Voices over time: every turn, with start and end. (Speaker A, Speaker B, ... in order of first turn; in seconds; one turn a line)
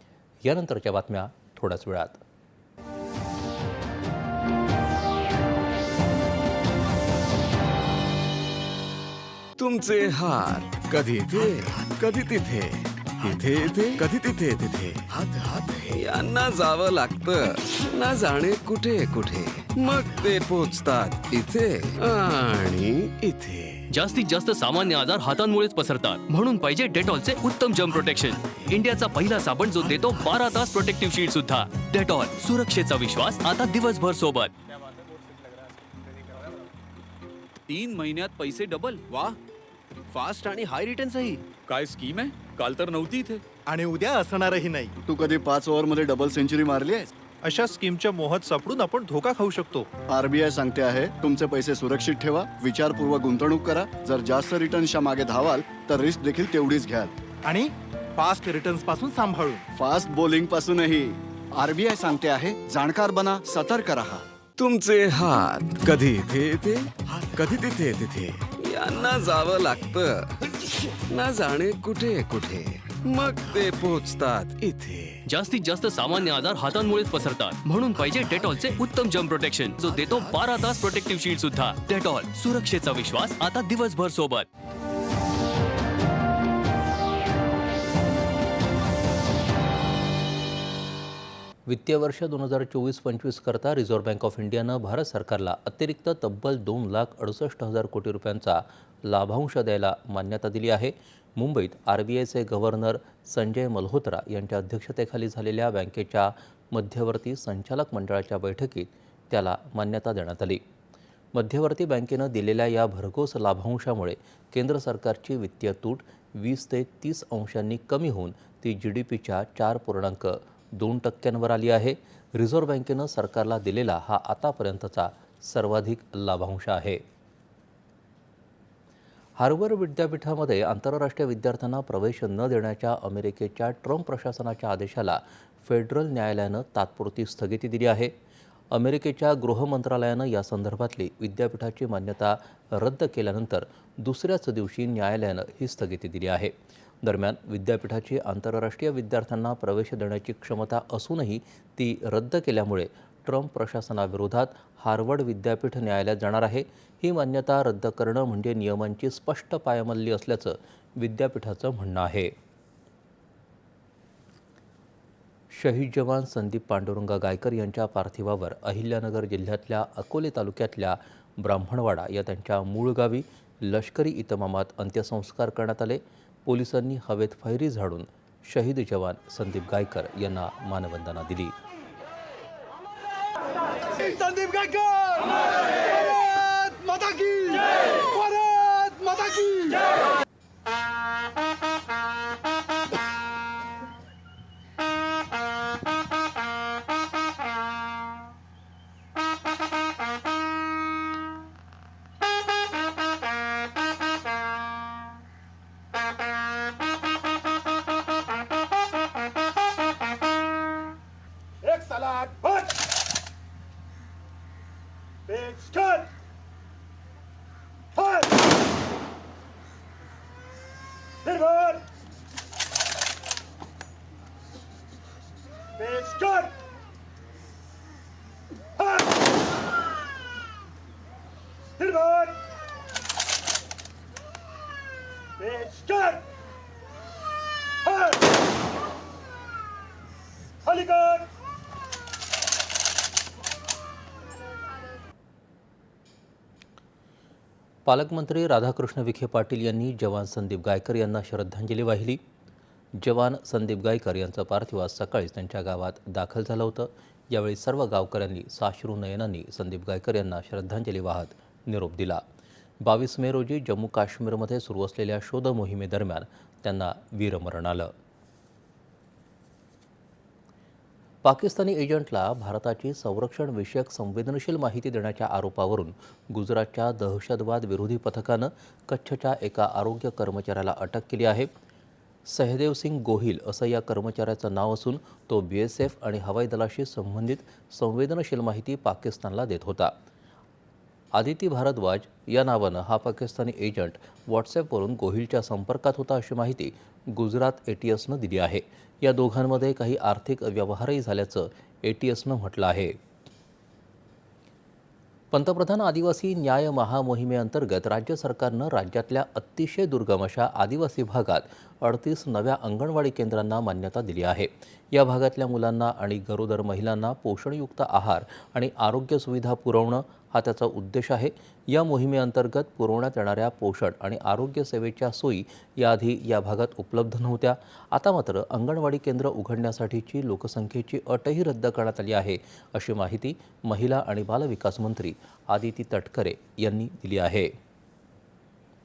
Speaker A: 0.4-2.2
Speaker B: 9.6-23.8
Speaker C: 23.9-34.5
Speaker D: 37.7-39.4
Speaker D: 40.1-43.4
Speaker E: 43.7-45.0
Speaker F: 45.1-47.1
Speaker E: 47.4-49.9
Speaker F: 50.1-57.1
Speaker E: 57.4-59.6
Speaker F: 59.7-64.2
Speaker B: 64.6-70.3
Speaker B: 71.1-75.2
Speaker C: 75.3-84.5
Speaker B: 80.0-80.3
Speaker A: 91.7-110.6
Speaker A: 111.3-127.0
Speaker A: 129.4-138.1
Speaker A: 138.7-162.3
Speaker A: 165.5-181.5
Speaker E: 183.8-189.9
Speaker E: 211.7-212.6
Speaker E: 215.3-216.1
Speaker E: 221.4-221.8
Speaker E: 225.8-226.5
Speaker E: 231.8-232.3
Speaker E: 235.4-236.2
Speaker E: 240.7-241.2
Speaker A: 247.8-252.2
Speaker A: 252.9-262.2
Speaker A: 262.8-267.9
Speaker A: 271.2-281.5
Speaker A: 282.2-289.9
Speaker A: 291.1-303.0
Speaker A: 305.3-337.5